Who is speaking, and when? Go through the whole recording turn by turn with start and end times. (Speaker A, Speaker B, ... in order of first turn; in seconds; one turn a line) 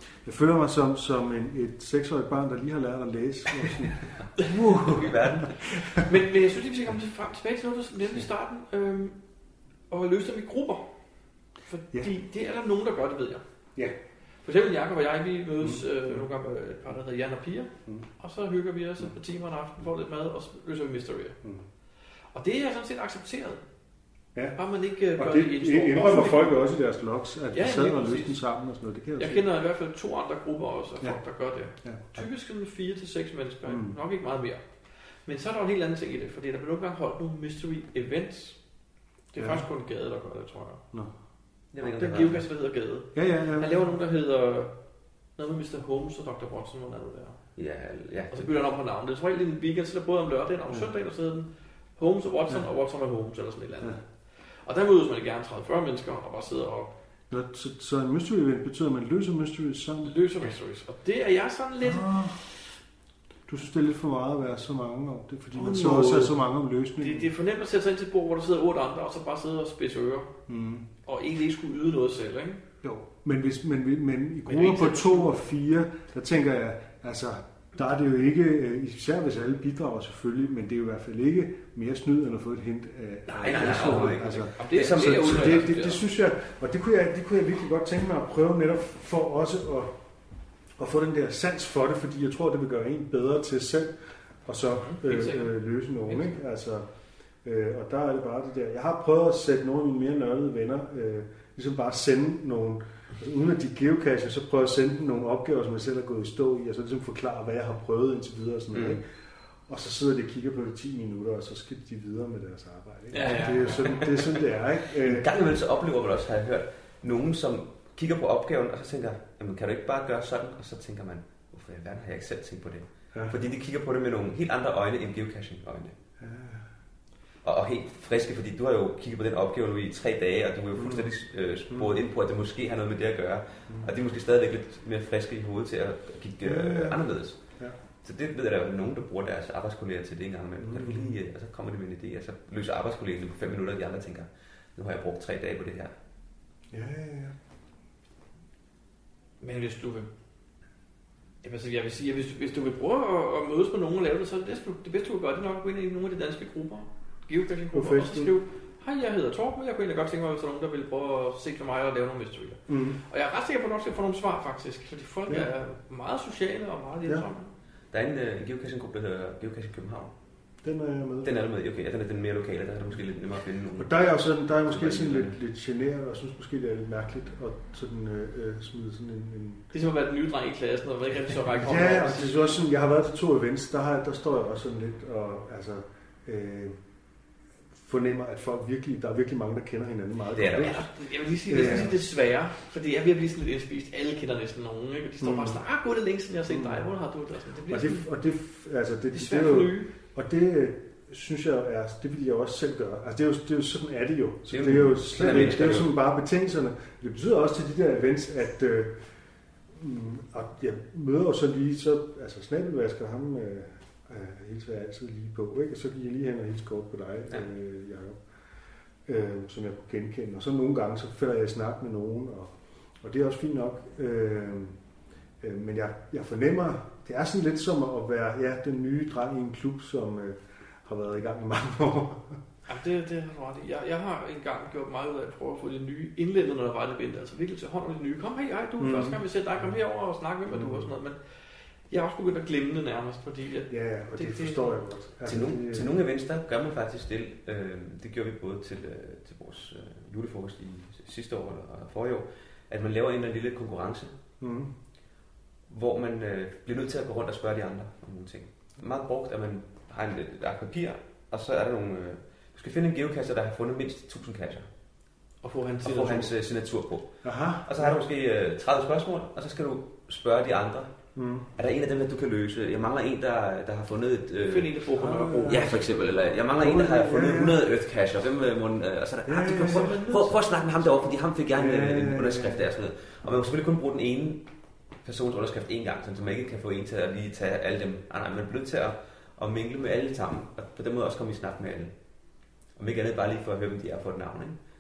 Speaker A: 0.2-6.0
Speaker B: 4.4-5.0
Speaker C: 4.4-5.7
Speaker B: 6.0-9.2
Speaker B: 9.9-10.9
Speaker B: 11.7-13.4
Speaker B: 14.4-21.4
Speaker A: 15.6-16.3
Speaker B: 22.3-23.6
Speaker B: 24.6-26.6
Speaker A: 25.1-29.5
Speaker B: 27.5-28.4
Speaker B: 29.2-38.6
Speaker A: 31.8-32.2
Speaker A: 33.7-34.0
Speaker B: 39.3-40.8
Speaker A: 39.4-39.7
Speaker C: 41.7-42.5
Speaker B: 41.8-44.8
Speaker A: 43.1-43.8
Speaker B: 45.4-47.4
Speaker C: 47.6-48.5
Speaker B: 48.3-56.9
Speaker A: 57.3-60.1
Speaker B: 60.0-62.3
Speaker A: 61.8-62.4
Speaker A: 63.5-67.3
Speaker B: 65.5-66.4
Speaker B: 67.0-70.3
Speaker A: 70.5-70.9
Speaker B: 71.0-72.6
Speaker A: 72.8-90.0
Speaker B: 74.5-75.4
Speaker B: 83.3-86.0
Speaker C: 83.4-85.7
Speaker A: 90.8-96.9
Speaker B: 94.8-96.4
Speaker A: 97.4-115.3
Speaker C: 108.7-109.0
Speaker B: 113.1-114.0
Speaker C: 113.2-114.3
Speaker C: 115.0-126.0
Speaker A: 126.2-126.7
Speaker C: 127.4-137.4
Speaker A: 130.8-131.1
Speaker A: 131.7-132.0
Speaker A: 136.4-137.0
Speaker C: 138.0-145.9
Speaker A: 140.6-141.1
Speaker A: 146.7-147.4
Speaker B: 149.4-150.1
Speaker B: 151.4-167.5
Speaker A: 157.7-158.3
Speaker A: 162.7-163.0
Speaker C: 167.9-170.1
Speaker A: 170.6-171.4
Speaker C: 171.2-174.1
Speaker A: 173.8-179.7
Speaker C: 174.7-175.4
Speaker B: 179.7-182.6
Speaker A: 181.4-186.8
Speaker A: 187.7-190.9
Speaker C: 190.3-190.9
Speaker B: 190.6-198.1
Speaker A: 191.5-191.9
Speaker C: 191.5-191.9
Speaker A: 195.2-195.6
Speaker A: 196.5-196.9
Speaker A: 197.7-209.0
Speaker B: 199.1-199.9
Speaker C: 204.5-205.9
Speaker A: 209.7-218.2
Speaker A: 219.1-224.8
Speaker A: 225.4-232.4
Speaker B: 232.7-244.8
Speaker A: 238.8-239.2
Speaker A: 240.5-240.9
Speaker A: 243.7-245.9
Speaker C: 245.2-254.1
Speaker A: 254.4-254.7
Speaker C: 255.7-264.7
Speaker B: 265.4-266.3
Speaker C: 265.8-270.9
Speaker A: 267.2-268.0
Speaker A: 271.1-271.5
Speaker C: 271.6-274.7
Speaker B: 274.5-276.5
Speaker A: 275.0-275.9
Speaker C: 275.5-284.5
Speaker A: 276.5-277.6
Speaker A: 279.3-280.0
Speaker B: 279.4-280.4
Speaker A: 281.5-282.7
Speaker C: 285.0-291.9
Speaker C: 292.8-294.6